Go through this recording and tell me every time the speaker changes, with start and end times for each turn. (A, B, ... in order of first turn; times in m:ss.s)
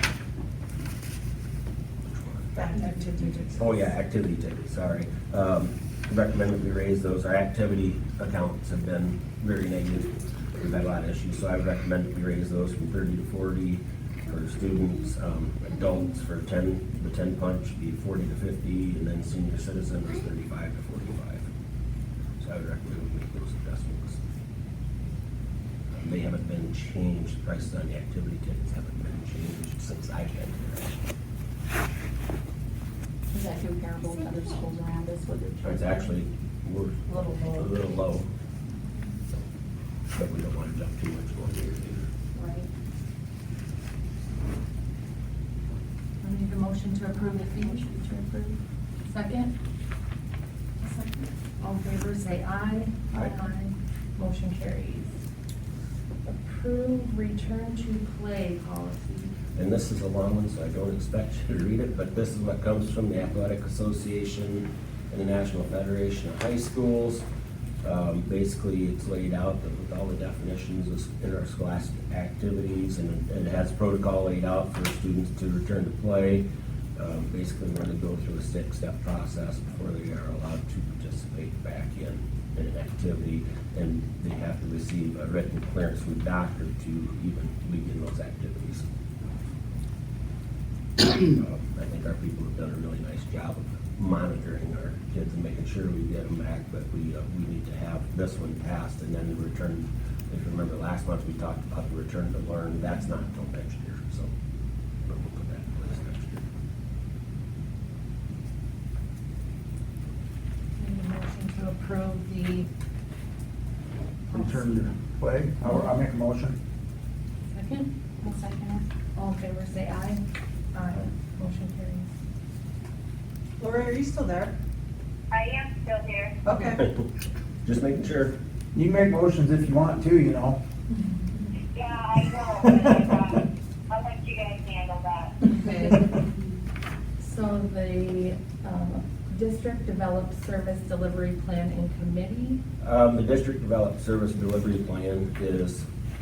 0:02.0-0:02.5 A
0:02.6-0:03.6 B
0:02.7-0:03.4 C
0:03.6-0:21.5 A
0:22.4-0:24.2 A
0:25.9-0:31.0 A
0:33.3-0:36.1 D
0:35.6-0:38.3 A
0:37.1-0:37.8 C
0:40.1-0:42.1 A
0:42.3-0:42.7 D
0:46.2-0:47.9 C
0:47.5-0:48.6 D
0:49.0-0:49.5 C
0:51.6-0:55.2 C
0:56.2-0:59.3 C
0:59.6-1:07.2 A
1:07.8-1:28.8 A
1:31.0-1:44.3 A
1:45.0-1:46.4 A
1:50.8-1:52.7 C
1:54.3-1:54.7 C
1:54.3-1:56.6 E
1:57.5-1:57.9 C
1:58.2-1:58.8 D
1:59.2-2:00.2 C
2:00.7-2:02.1 C
2:03.6-2:04.5 B
2:05.3-2:06.4 F
2:06.5-2:06.8 B
2:07.6-2:08.4 A
2:08.7-2:10.6 E
2:10.9-2:11.5 C
2:11.7-2:15.4 F
2:15.4-2:16.2 C
2:16.2-2:16.6 D
2:17.2-2:22.6 C
2:22.8-2:25.9 A